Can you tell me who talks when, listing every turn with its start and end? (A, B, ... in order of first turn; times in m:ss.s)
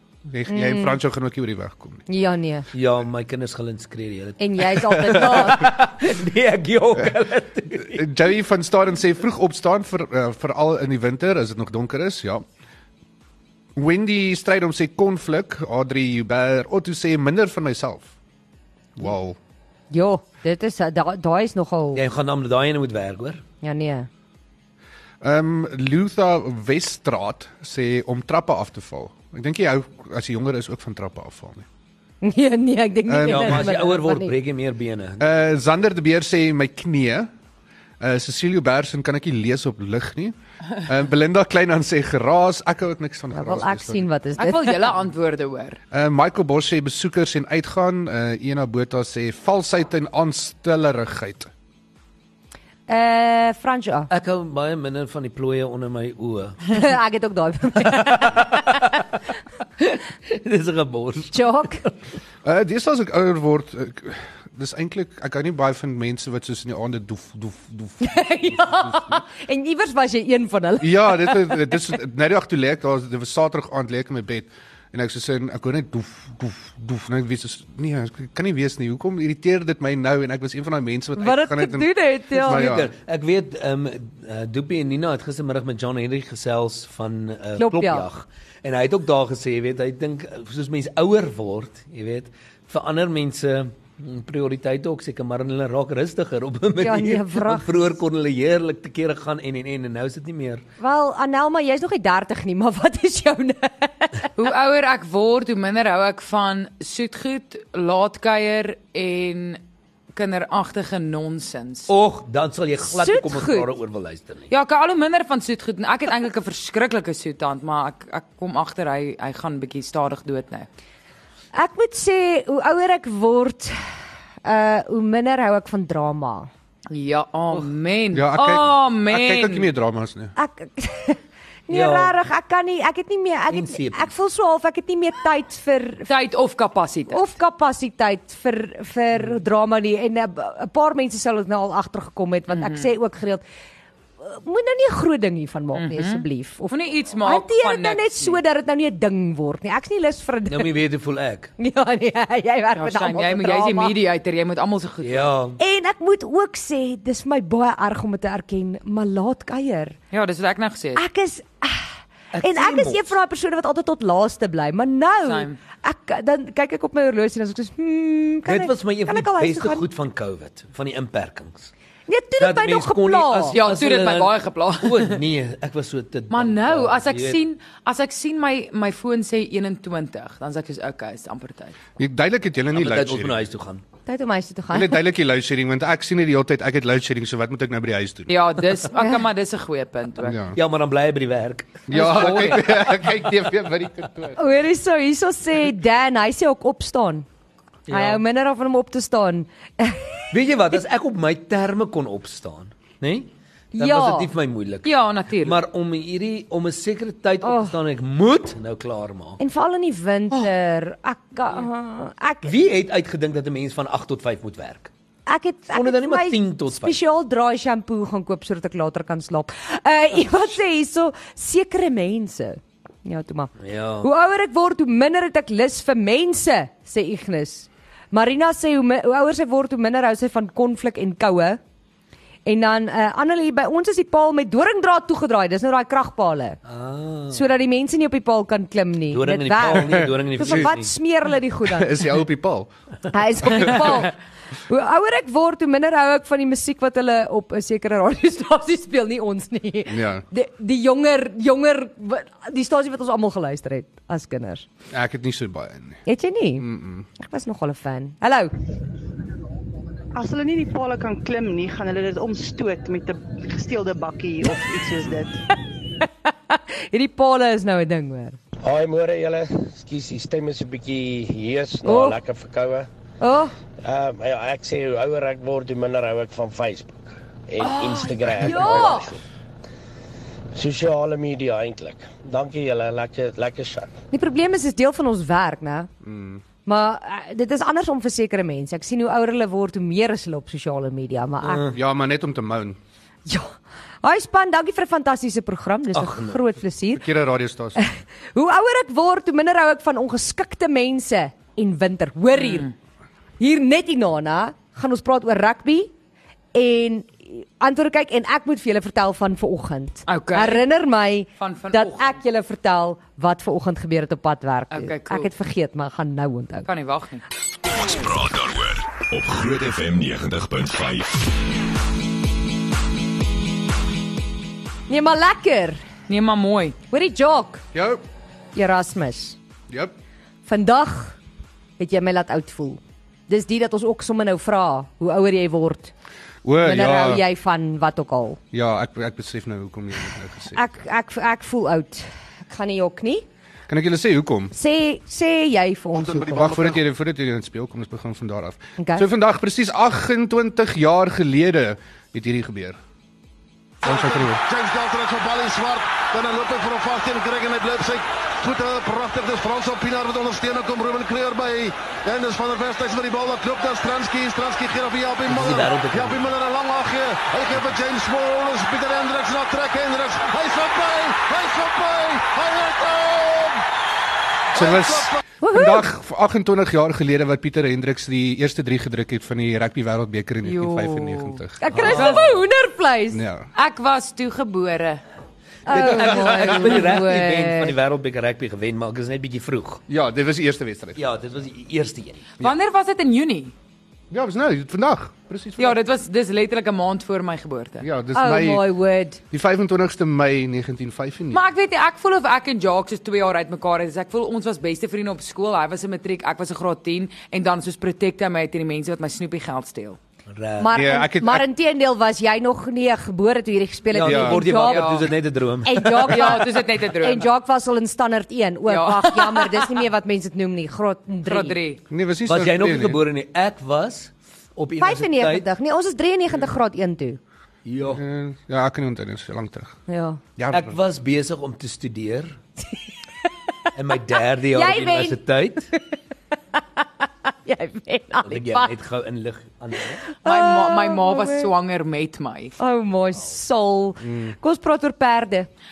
0:00.3-0:02.0 A
0:00.5-0:01.0 B
0:02.1-0:02.7 B
0:02.7-0:08.1 C
0:04.4-0:05.8 B
0:07.8-0:12.4 A
0:13.7-0:18.1 A
0:19.0-0:19.4 A
0:19.9-0:22.0 B
0:21.9-0:23.4 C
0:23.6-0:24.1 B
0:25.2-0:31.6 A
0:32.2-0:34.4 B
0:33.1-0:33.8 A
0:33.2-0:35.3 C
0:35.2-0:37.3 A
0:38.0-0:44.1 A
0:43.3-0:44.9 B
0:44.4-0:45.8 D
0:45.9-0:51.5 A
0:52.9-0:54.1 B
0:54.1-0:56.8 C
0:56.7-0:58.4 B
0:57.8-0:58.9 C
0:59.8-1:01.9 C
1:01.3-1:01.8 B
1:02.4-1:09.2 A
1:08.0-1:11.7 B
1:10.8-1:22.9 A
1:21.2-1:22.7 B
1:22.4-1:40.6 C
1:27.6-1:28.1 B
1:36.8-1:37.7 B
1:40.8-1:44.3 B
1:44.4-1:49.6 D
1:50.1-1:51.9 D
1:51.9-1:54.5 C
1:52.9-1:53.7 B
1:54.5-2:00.7 D
2:01.5-2:03.8 B
2:04.4-2:06.5 B
2:06.9-2:09.7 D
2:08.1-2:10.3 A
2:10.4-2:16.1 B
2:11.7-2:12.1 C
2:13.5-2:14.1 C
2:16.1-2:17.2 D
2:17.1-2:23.4 B
2:22.5-2:22.9 D
2:24.2-2:30.7 B
2:25.7-2:28.4 D
2:30.5-2:31.5 C
2:31.6-2:33.9 B
2:32.8-2:35.3 D
2:35.0-2:35.6 C
2:35.6-2:39.9 B
2:40.1-2:41.0 D
2:41.0-2:49.8 B
2:42.3-2:43.2 C
2:45.2-2:45.6 D
2:48.4-2:51.7 C
2:52.1-2:53.6 B
2:52.4-2:57.4 C
2:53.5-2:55.2 D
2:56.3-3:01.7 D
3:02.0-3:03.4 A
3:02.7-3:03.8 C
3:04.0-3:05.0 B
3:04.7-3:08.4 A
3:08.3-3:10.4 D
3:09.0-3:09.2 B
3:10.2-3:10.6 A
3:10.5-3:13.0 C
3:11.9-3:14.4 A
3:12.0-3:12.6 D
3:14.4-3:17.2 B
3:17.9-3:18.2 C
3:17.9-3:20.3 B
3:20.3-3:29.4 C
3:23.7-3:24.3 B
3:24.8-3:25.6 D
3:27.4-3:27.7 B
3:29.4-3:32.5 B
3:32.4-3:34.9 C
3:35.3-3:51.6 B
3:35.7-3:37.0 C
3:43.6-3:44.1 C
3:52.4-3:56.6 B
3:56.6-3:57.4 C
3:57.3-4:02.0 B
3:59.1-4:00.9 C
3:59.8-4:00.7 A
4:01.6-4:02.7 A
4:03.1-4:04.1 B
4:03.5-4:03.9 A
4:04.7-4:14.6 B
4:09.9-4:10.2 A
4:14.9-4:16.0 A
4:16.0-4:16.6 B
4:16.6-4:17.1 A
4:17.2-4:18.5 B
4:20.1-4:25.4 E
4:26.0-4:28.4 B
4:28.6-4:32.9 F
4:31.8-4:32.2 B
4:33.2-4:33.5 B
4:33.8-4:39.2 F
4:37.6-4:39.1 B
4:40.5-4:43.9 F
4:44.1-4:45.9 B
4:46.0-4:46.4 A
4:46.6-4:51.6 B
4:51.4-4:51.8 C
4:51.7-4:52.8 A
4:53.3-4:57.0 B
4:55.9-4:56.4 C
4:56.9-4:57.8 A
4:57.8-5:02.7 B
5:02.3-5:02.7 D
5:03.4-5:05.9 B
5:06.5-5:16.7 B
5:10.1-5:10.6 D
5:11.4-5:12.2 D
5:14.7-5:15.3 D
5:16.6-5:17.2 D
5:17.6-5:21.3 G
5:24.9-5:25.8 B
5:26.1-5:26.8 D
5:26.9-5:27.6 B
5:27.7-5:28.0 A
5:28.5-5:29.4 B
5:30.5-5:31.2 B
5:31.8-5:35.9 B
5:36.4-5:37.2 A
5:36.6-5:38.4 B
5:38.5-5:40.7 A
5:40.5-5:43.2 B
5:43.7-5:44.5 A
5:44.5-5:46.5 B
5:46.0-5:46.7 H
5:46.1-5:52.8 A
5:48.8-5:49.0 B
5:53.8-5:54.4 A
5:53.8-6:13.6 H
6:05.3-6:06.3 C
6:14.5-6:21.9 A
6:14.5-6:15.2 H
6:15.4-6:15.9 B
6:20.4-6:22.2 D
6:21.6-6:23.2 B
6:21.7-6:22.3 C
6:23.1-6:23.5 A
6:23.5-6:25.0 D
6:25.6-6:27.7 B
6:25.7-6:29.8 C
6:29.9-6:31.0 A
6:31.0-6:32.2 C
6:32.4-6:33.5 D
6:34.1-6:35.8 A
6:35.6-6:37.8 D
6:37.8-6:38.7 A
6:38.1-6:39.2 B
6:39.3-6:41.4 A
6:41.3-6:50.0 D
6:50.3-6:50.8 C
6:50.6-6:55.1 B
6:50.7-6:51.4 A
6:53.9-6:56.4 C
6:54.0-6:54.4 A
6:54.5-6:55.0 D
6:55.6-7:01.6 B
6:56.1-6:57.3 D
6:58.7-6:59.8 D
7:01.2-7:01.8 D
7:01.9-7:03.0 A
7:02.2-7:05.5 C
7:04.8-7:07.2 B
7:07.6-7:08.0 C
7:07.9-7:09.8 A
7:09.9-7:10.2 B
7:10.4-7:10.8 A
7:10.5-7:12.4 C
7:13.7-7:15.7 C
7:14.5-7:15.2 B
7:17.3-7:18.7 B
7:18.2-7:20.0 C
7:20.0-7:21.5 B
7:20.2-7:22.5 D
7:22.6-7:25.5 B
7:24.0-7:24.4 A